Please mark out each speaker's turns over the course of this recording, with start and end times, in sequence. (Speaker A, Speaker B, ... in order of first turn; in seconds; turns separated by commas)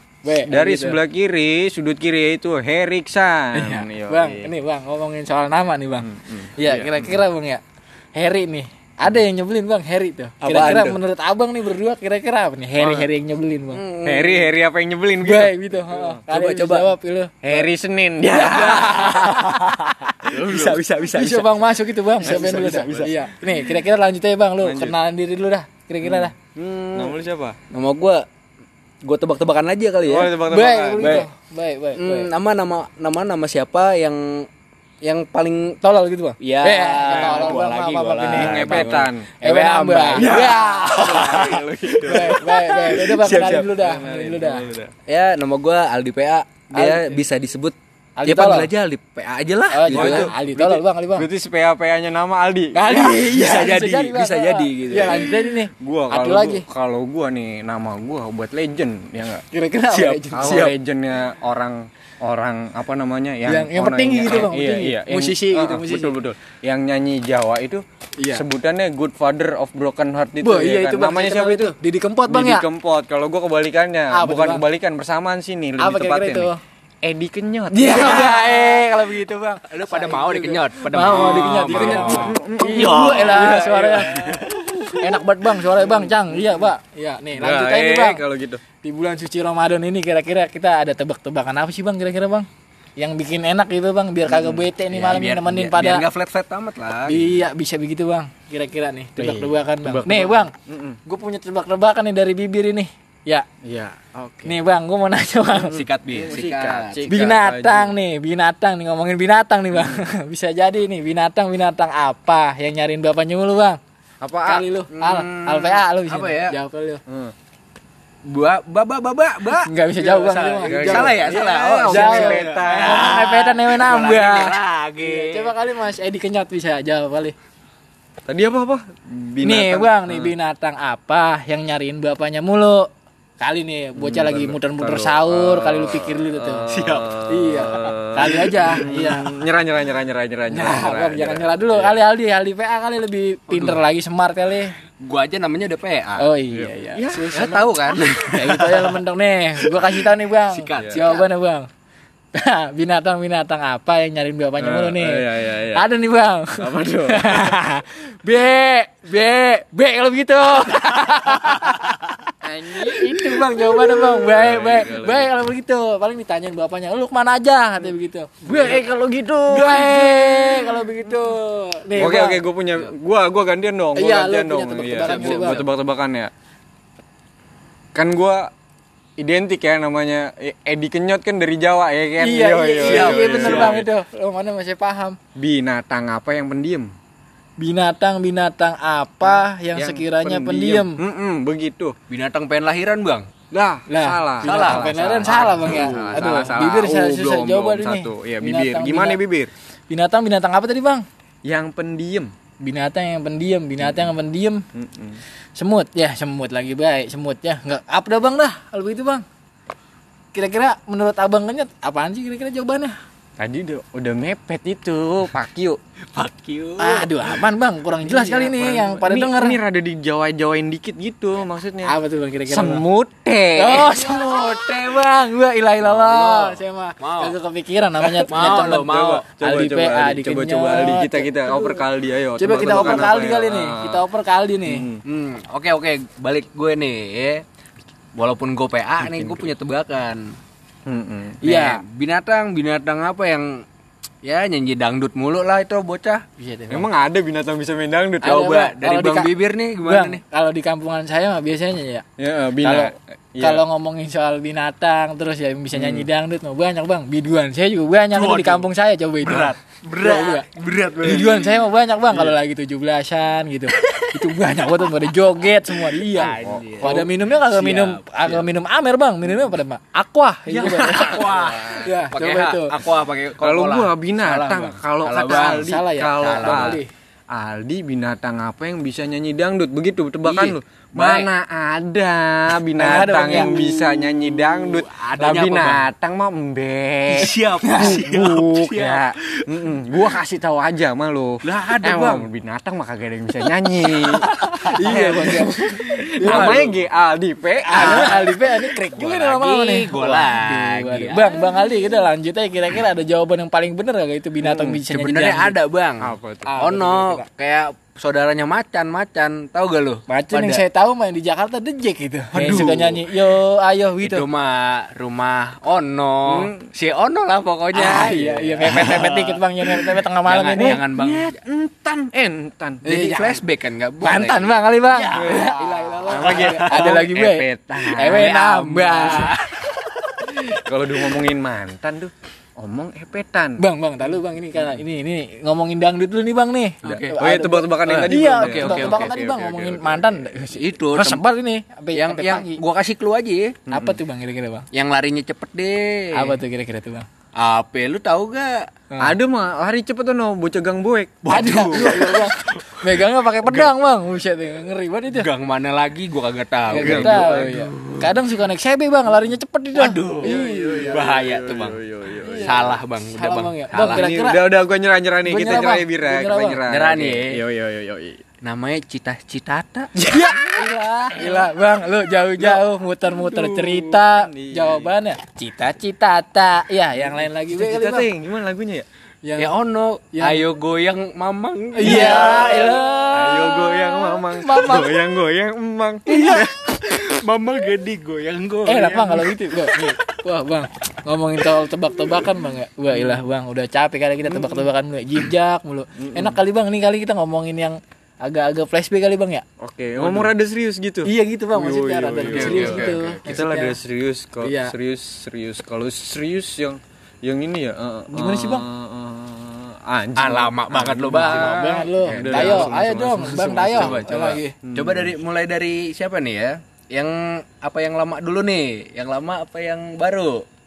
Speaker A: 0.2-1.0, Speaker B: 0.5-4.5, Speaker A: 3.6-7.6, Speaker B: 6.0-7.2, Speaker A: 8.2-13.8, Speaker B: 10.4-10.9, Speaker C: 10.4-11.0, Speaker B: 12.8-13.1, Speaker C: 13.7-14.5, Speaker B: 14.1-16.2, Speaker A: 15.2-17.7, Speaker C: 16.3-16.9, Speaker B: 17.4-19.1, Speaker C: 18.3-21.5, Speaker A: 18.3-26.3, Speaker B: 20.3-20.8, Speaker C: 22.2-22.7, Speaker B: 22.2-23.8, Speaker B: 24.6-24.9, Speaker B: 26.0-27.6, Speaker C: 26.8-27.2, Speaker C: 27.7-28.2, Speaker C: 29.0-30.4, Speaker B: 30.1-31.3, Speaker A: 30.5-32.3, Speaker C: 31.0-31.3, Speaker C: 32.0-34.5, Speaker C: 35.0-35.8, Speaker A: 35.8-41.0, Speaker C: 36.4-43.5, Speaker B: 37.1-37.6, Speaker B: 38.3-39.3, Speaker B: 40.2-44.9, Speaker A: 42.1-44.7, Speaker C: 45.1-47.8, Speaker A: 48.2-48.7, Speaker C: 48.3-50.3, Speaker A: 49.7-51.3, Speaker B: 49.9-52.8, Speaker A: 52.7-56.7, Speaker C: 52.9-55.3, Speaker B: 54.9-59.4, Speaker A: 59.5-60.7, Speaker C: 59.9-60.7, Speaker B: 60.3-71.8, Speaker A: 63.5-66.2, Speaker A: 68.2-68.5, Speaker A: 70.4-72.7, Speaker B: 72.3-76.5, Speaker A: 74.1-74.7, Speaker A: 75.8-76.6, Speaker B: 77.0-78.3, Speaker A: 77.7-84.3, Speaker C: 78.2-78.9, Speaker C: 79.7-84.8, Speaker B: 81.0-84.7, Speaker A: 84.9-88.2, Speaker B: 85.7-86.7, Speaker B: 87.4-88.6, Speaker A: 88.8-96.1, Speaker B: 94.2-94.7, Speaker C: 94.9-97.3, Speaker A: 97.1-100.5, Speaker B: 99.2-101.0, Speaker A: 101.1-103.5, Speaker B: 103.6-104.6, Speaker A: 104.5-105.8, Speaker B: 105.5-108.0, Speaker C: 105.6-107.0, Speaker A: 107.1-113.8, Speaker B: 109.7-110.0, Speaker B: 114.2-114.7, Speaker A: 114.4-117.0, Speaker C: 114.9-116.6, Speaker B: 117.1-117.3, Speaker C: 118.3-125.5, Speaker A: 119.5-121.2, Speaker B: 120.7-123.1, Speaker A: 121.9-127.3, Speaker B: 128.3-130.3, Speaker A: 129.4-132.9, Speaker A: 133.4-136.7, Speaker B: 134.0-142.0, Speaker C: 136.7-137.1, Speaker A: 137.3-139.3, Speaker A: 140.5-144.7, Speaker C: 143.5-143.8, Speaker C: 145.0-146.3, Speaker A: 146.2-147.7, Speaker B: 146.5-147.2, Speaker C: 147.1-149.0, Speaker A: 148.3-151.7, Speaker C: 149.6-151.2, Speaker B: 150.8-151.1, Speaker A: 152.3-162.1, Speaker B: 154.6-155.9, Speaker B: 156.6-157.6, Speaker B: 162.4-165.3, Speaker A: 162.7-168.8, Speaker B: 168.4-171.3, Speaker A: 169.5-172.4, Speaker B: 172.0-176.3, Speaker A: 173.9-175.6, Speaker C: 175.0-175.6, Speaker B: 177.9-178.5, Speaker B: 179.2-183.9, Speaker A: 182.2-185.2, Speaker C: 182.8-183.8, Speaker B: 185.4-186.9, Speaker A: 187.6-191.0, Speaker B: 189.2-191.9, Speaker C: 192.1-193.3, Speaker B: 193.5-199.5, Speaker A: 193.9-199.2, Speaker C: 194.4-196.6, Speaker A: 199.9-201.0, Speaker B: 201.4-202.3, Speaker A: 202.6-204.6, Speaker B: 203.8-204.1, Speaker B: 204.8-205.2, Speaker A: 205.6-209.2, Speaker A: 210.3-213.0, Speaker B: 213.4-215.8, Speaker C: 216.1-217.4, Speaker A: 216.8-219.6, Speaker B: 218.0-221.9, Speaker A: 221.9-222.8, Speaker B: 222.5-224.0, Speaker A: 223.6-231.8, Speaker C: 225.8-227.3, Speaker B: 228.0-234.1, Speaker C: 228.3-229.3, Speaker A: 232.4-234.9, Speaker C: 232.6-233.1, Speaker B: 234.7-235.0, Speaker C: 235.1-237.4, Speaker C: 238.2-240.2, Speaker B: 239.0-239.5, Speaker B: 240.9-241.4, Speaker A: 241.4-241.8, Speaker C: 241.4-243.6, Speaker C: 244.2-246.2, Speaker A: 246.4-246.9, Speaker B: 246.7-248.4, Speaker A: 248.2-249.3, Speaker C: 248.2-250.2, Speaker A: 249.8-252.1, Speaker B: 252.2-253.6, Speaker A: 252.6-260.5, Speaker B: 255.7-256.1, Speaker C: 258.1-258.7, Speaker C: 259.2-261.6, Speaker A: 261.0-272.7, Speaker C: 263.8-264.1, Speaker C: 266.0-268.5, Speaker B: 266.2-267.1, Speaker C: 270.5-276.8, Speaker B: 270.6-271.5, Speaker B: 273.4-276.8, Speaker A: 275.6-276.9, Speaker B: 277.3-294.2, Speaker C: 280.2-281.3, Speaker A: 282.8-283.7, Speaker C: 283.1-285.9, Speaker C: 287.2-289.1, Speaker A: 287.2-288.0, Speaker C: 291.4-292.3, Speaker A: 294.2-296.6, Speaker C: 294.4-296.8, Speaker B: 294.9-295.2, Speaker B: 296.2-298.2, Speaker A: 297.7-305.6, Speaker C: 297.7-302.0, Speaker B: 304.4-304.8, Speaker C: 304.9-310.6, Speaker B: 306.0-306.7, Speaker A: 306.6-307.2, Speaker A: 310.1-314.2, Speaker B: 312.3-313.0, Speaker C: 312.3-313.0, Speaker C: 314.0-321.4, Speaker B: 316.3-316.7, Speaker A: 317.7-320.8, Speaker B: 317.9-319.0, Speaker B: 320.6-322.8, Speaker A: 322.8-323.4, Speaker C: 322.9-329.7, Speaker A: 324.0-330.4, Speaker B: 325.1-328.2, Speaker B: 330.6-333.6, Speaker A: 333.6-342.6, Speaker C: 336.8-337.1, Speaker B: 336.9-340.3, Speaker C: 337.9-339.1, Speaker C: 340.5-341.2, Speaker C: 341.9-343.5, Speaker A: 343.7-344.7, Speaker B: 343.7-344.0, Speaker C: 344.7-346.4, Speaker A: 346.1-347.1, Speaker C: 347.4-348.6, Speaker B: 349.0-351.2, Speaker C: 351.2-352.8, Speaker A: 351.3-355.3, Speaker B: 353.4-353.7, Speaker C: 355.1-358.2, Speaker A: 356.7-361.0, Speaker B: 356.7-357.5, Speaker C: 359.7-361.8, Speaker B: 360.2-362.7, Speaker A: 362.2-364.5, Speaker C: 362.4-364.1, Speaker B: 363.8-368.2, Speaker A: 365.2-366.6, Speaker C: 366.7-367.4, Speaker C: 368.4-370.4, Speaker A: 370.0-378.1, Speaker B: 371.2-371.4, Speaker C: 373.2-373.8, Speaker B: 373.9-374.9, Speaker B: 377.0-378.9, Speaker A: 379.2-379.5, Speaker C: 379.4-383.1, Speaker A: 380.1-380.4, Speaker A: 381.8-385.0, Speaker B: 381.8-386.3, Speaker C: 386.1-390.1, Speaker A: 386.1-386.4, Speaker A: 388.6-399.4, Speaker B: 394.3-394.7, Speaker B: 396.0-396.4, Speaker B: 399.6-415.2, Speaker C: 400.0-400.3, Speaker A: 401.1-403.8, Speaker C: 402.3-403.0, Speaker A: 404.4-404.7, Speaker A: 408.1-408.7, Speaker C: 410.2-420.4, Speaker A: 411.2-414.5